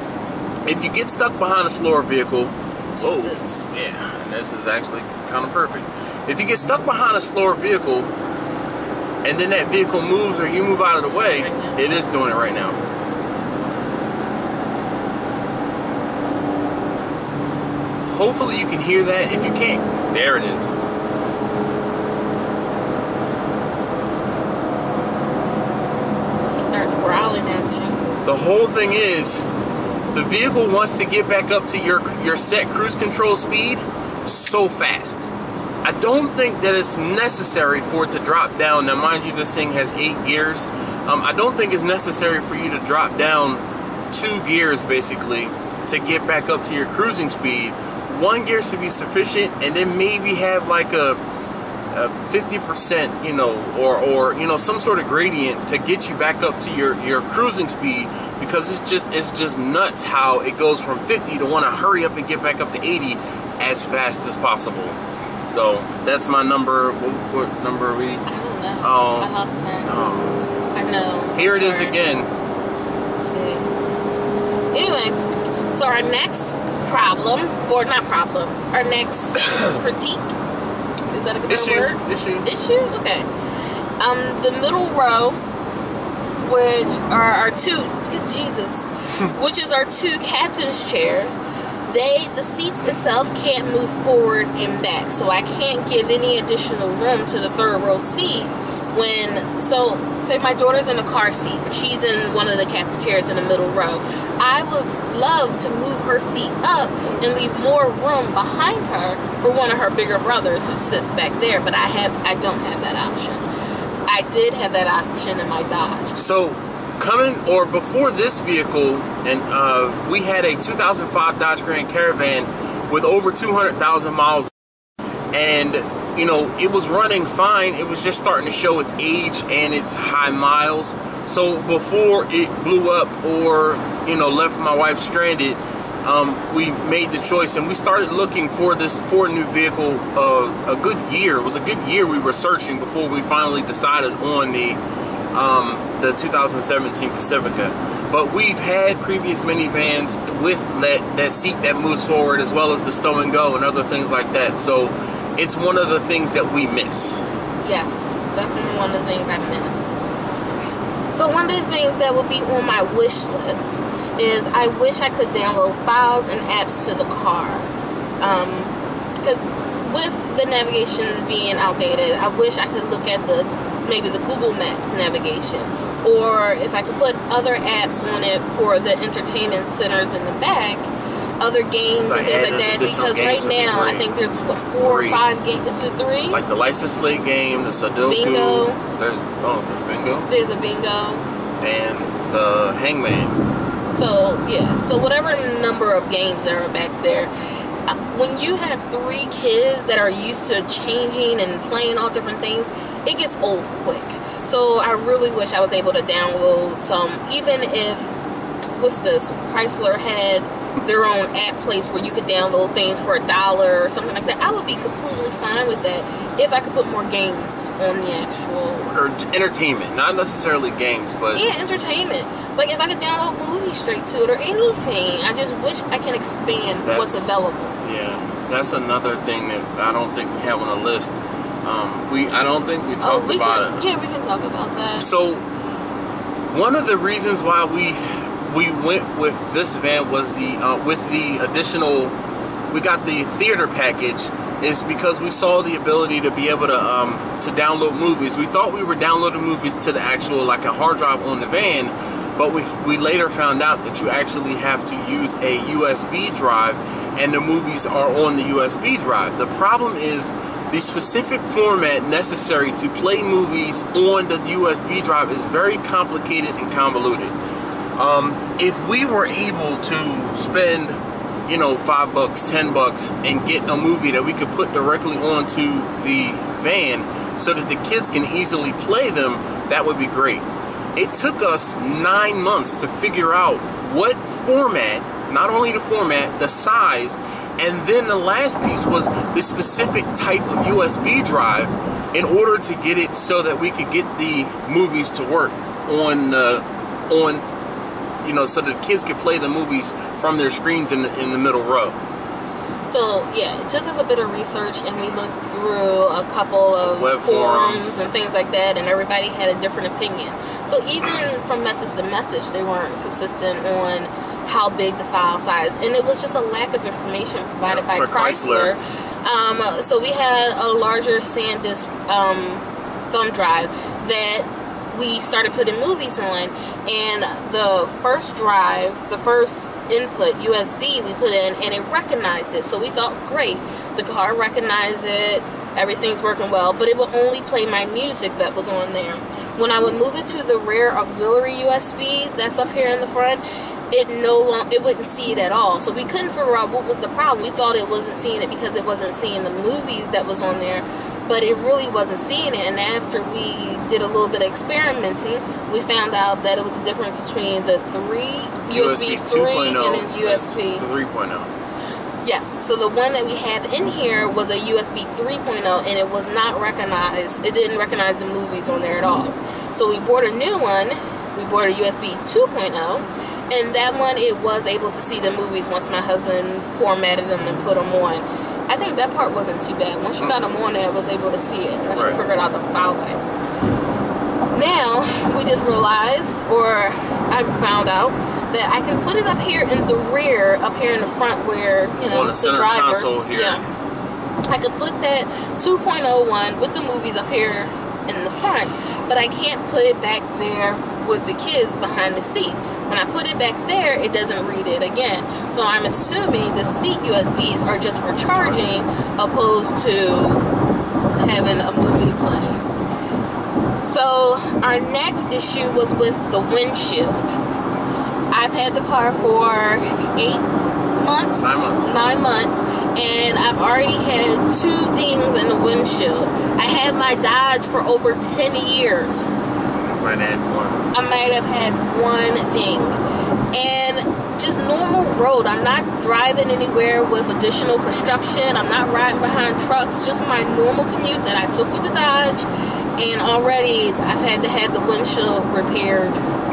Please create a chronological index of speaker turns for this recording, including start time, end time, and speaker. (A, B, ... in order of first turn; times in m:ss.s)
0:00.6-0:08.1 A
0:03.0-0:03.7 B
0:09.2-0:12.8 A
0:10.8-0:11.8 B
0:18.1-0:20.8 A
0:26.5-0:28.0 B
0:28.2-0:29.5 A
0:30.1-0:35.3 A
0:35.8-0:51.2 A
0:51.9-1:08.2 A
1:08.2-1:10.0 B
1:08.8-1:09.3 A
1:09.8-1:10.5 A
1:10.7-1:12.0 B
1:11.3-1:12.3 A
1:13.2-1:13.7 B
1:14.7-1:15.2 B
1:15.7-1:20.3 B
1:21.1-1:23.3 B
1:21.5-1:22.5 A
1:24.0-1:25.4 B
1:26.4-1:53.5 B
1:54.1-1:56.1 B
1:56.1-2:04.5 A
2:05.3-2:24.8 A
2:25.3-2:37.2 A
2:37.6-2:40.0 B
2:41.1-3:00.9 B
3:01.4-3:06.4 B
3:02.0-3:04.1 A
3:04.8-3:05.3 A
3:06.3-3:10.3 A
3:08.0-3:08.8 B
3:10.3-3:11.2 B
3:11.6-3:13.4 A
3:13.9-3:17.3 B
3:17.8-3:28.2 B
3:28.8-3:38.9 B
3:38.8-3:41.4 A
3:41.3-3:47.8 B
3:46.8-3:47.3 A
3:47.8-3:53.9 A
3:53.0-3:55.1 B
3:55.0-3:55.4 A
3:56.5-4:02.1 A
4:02.7-4:27.4 A
4:28.0-4:40.4 A
4:41.0-4:57.4 A
4:58.2-5:02.0 A
5:02.8-6:00.8 B
5:06.8-5:08.0 A
5:17.7-5:18.8 A
5:58.7-6:01.5 A
6:02.2-6:23.2 B
6:21.9-6:22.2 A
6:24.5-6:33.6 B
6:32.1-6:33.6 A
6:34.5-6:50.5 B
6:48.3-6:48.6 A
6:51.1-6:52.6 B
6:53.8-6:57.3 B
6:58.3-7:09.4 B
7:01.4-7:02.0 A
7:09.8-7:10.9 A
7:10.9-7:13.0 B
7:13.5-7:26.3 B